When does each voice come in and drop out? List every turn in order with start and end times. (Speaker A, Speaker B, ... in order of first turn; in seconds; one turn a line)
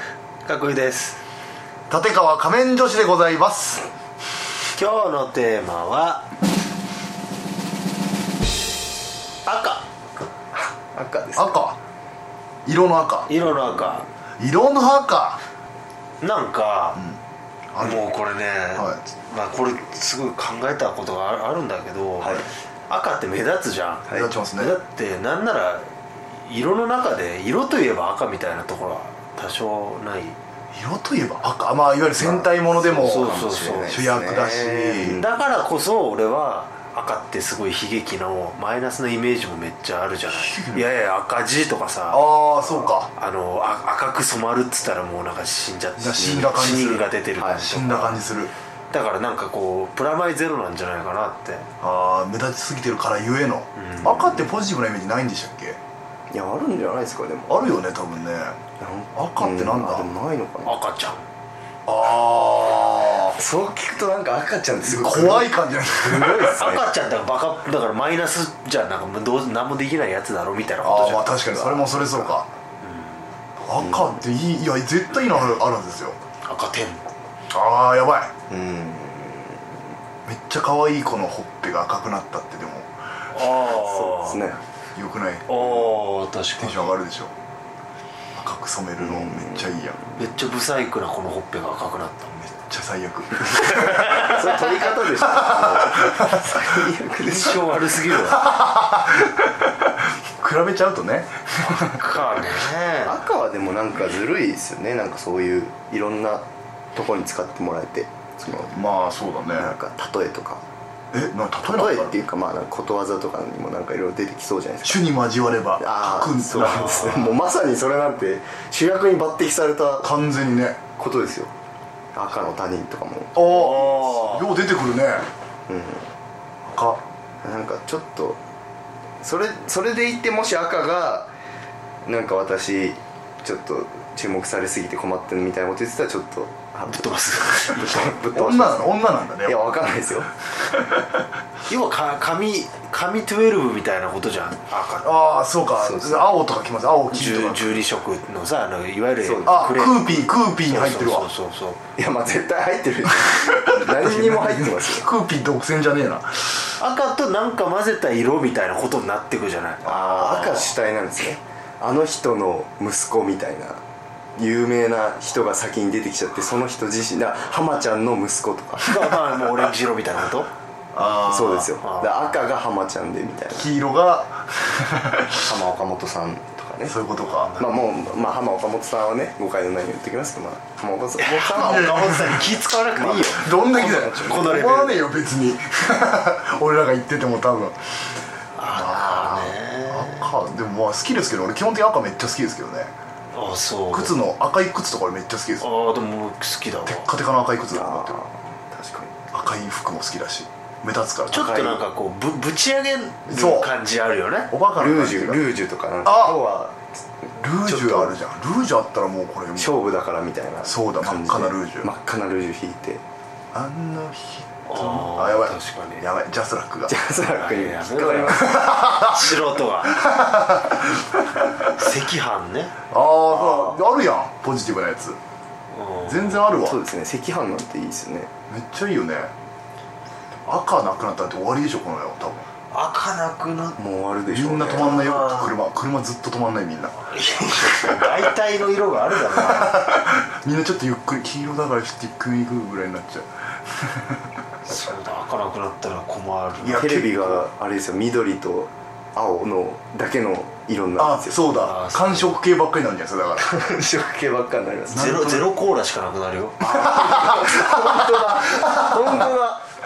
Speaker A: 0.5-1.2
Speaker B: 1.9-3.9
Speaker A: 4.8-6.3
Speaker A: 9.5-9.8
Speaker C: 10.6-11.6
Speaker B: 11.4-11.8
Speaker B: 12.7-13.3
Speaker A: 13.3-14.1
Speaker B: 14.4-15.4
Speaker A: 16.2-17.0
Speaker B: 17.7-18.1
Speaker A: 17.8-30.4
Speaker B: 24.1-24.8
Speaker B: 30.7-33.4
Speaker C: 32.2-35.3
Speaker A: 32.9-34.0
Speaker B: 33.9-35.2
Speaker A: 35.1-48.3
Speaker B: 40.3-40.9
Speaker B: 42.1-43.1
Speaker B: 46.0-48.5
Speaker A: 48.9-51.7
Speaker B: 51.8-55.8
Speaker A: 53.8-54.5
Speaker C: 56.3-57.7
Speaker B: 57.5-58.6
Speaker C: 58.8-60.8
Speaker B: 59.1-60.1
Speaker A: 60.6-61.3
Speaker B: 61.9-63.4
Speaker C: 63.3-66.8
Speaker B: 64.8-66.7
Speaker A: 66.4-71.6
Speaker B: 70.8-72.5
Speaker C: 71.5-72.3
Speaker A: 72.8-73.3
Speaker B: 73.6-76.2
Speaker C: 73.8-74.2
Speaker A: 76.5-77.0
Speaker B: 77.5-78.3
Speaker C: 78.5-79.8
Speaker B: 80.3-82.9
Speaker A: 83.3-84.5
Speaker C: 83.6-84.6
Speaker B: 85.0-86.0
Speaker A: 85.5-87.0
Speaker B: 86.6-87.3
Speaker B: 88.3-90.0
Speaker C: 89.0-90.2
Speaker A: 90.2-92.3
Speaker B: 92.3-94.7
Speaker A: 94.0-94.4
Speaker C: 94.1-98.0
Speaker B: 95.2-96.8
Speaker A: 97.2-98.5
Speaker B: 98.2-102.5
Speaker A: 101.9-103.2
Speaker C: 103.0-108.8
Speaker B: 108.7-109.7
Speaker C: 109.6-110.6
Speaker B: 111.1-112.2
Speaker C: 111.7-115.2
Speaker B: 114.8-117.1
Speaker C: 115.8-120.1
Speaker A: 116.6-117.4
Speaker B: 120.0-120.8
Speaker C: 121.0-121.5
Speaker C: 122.2-123.5
Speaker B: 123.3-125.3
Speaker A: 123.4-124.5
Speaker C: 125.7-126.1
Speaker B: 126.7-127.0
Speaker C: 127.4-128.4
Speaker C: 129.2-131.3
Speaker C: 132.1-140.3
Speaker A: 136.9-138.1
Speaker B: 138.2-139.8
Speaker A: 141.7-145.5
Speaker B: 145.0-147.9
Speaker C: 145.7-146.3
Speaker A: 147.1-151.8
Speaker C: 149.2-149.8
Speaker B: 149.4-151.3
Speaker C: 152.0-155.1
Speaker B: 153.2-156.5
Speaker A: 156.8-160.7
Speaker C: 159.8-163.8
Speaker C: 164.4-169.0
Speaker A: 168.8-170.5
Speaker B: 170.9-171.7
Speaker C: 171.2-173.7
Speaker A: 171.8-172.3
Speaker B: 173.5-175.4
Speaker C: 175.4-177.0
Speaker B: 176.9-177.6
Speaker A: 177.1-177.8
Speaker C: 177.6-182.3
Speaker A: 181.2-185.0
Speaker B: 181.6-182.5
Speaker C: 182.9-184.5
Speaker B: 183.2-187.8
Speaker A: 188.6-190.4
Speaker B: 188.7-192.9
Speaker A: 193.3-194.2
Speaker B: 193.9-195.7
Speaker A: 195.6-197.1
Speaker B: 196.9-198.2
Speaker C: 197.7-199.2
Speaker B: 199.3-201.5
Speaker A: 201.3-204.5
Speaker C: 201.3-201.8
Speaker B: 203.3-203.7
Speaker B: 204.5-205.5
Speaker C: 204.8-208.2
Speaker B: 206.0-206.4
Speaker B: 207.4-209.8
Speaker C: 209.6-213.0
Speaker B: 210.6-211.9
Speaker B: 213.5-216.9
Speaker A: 214.7-216.0
Speaker C: 216.9-218.6
Speaker A: 217.2-220.1
Speaker B: 218.3-221.8
Speaker A: 221.7-222.7
Speaker B: 222.9-225.2
Speaker C: 223.3-223.8
Speaker A: 225.7-226.4
Speaker B: 226.0-226.8
Speaker C: 226.5-228.3
Speaker B: 228.5-229.3
Speaker B: 230.5-232.5
Speaker A: 232.7-233.8
Speaker C: 233.8-235.1
Speaker B: 234.3-238.2
Speaker A: 234.8-235.6
Speaker A: 237.1-239.9
Speaker B: 239.3-244.2
Speaker A: 244.7-247.0
Speaker B: 246.6-247.5
Speaker C: 246.7-251.4
Speaker B: 251.0-253.5
Speaker A: 251.5-252.4
Speaker C: 253.4-255.2
Speaker B: 254.9-255.6
Speaker A: 254.9-256.8
Speaker C: 256.6-259.6
Speaker B: 256.6-259.4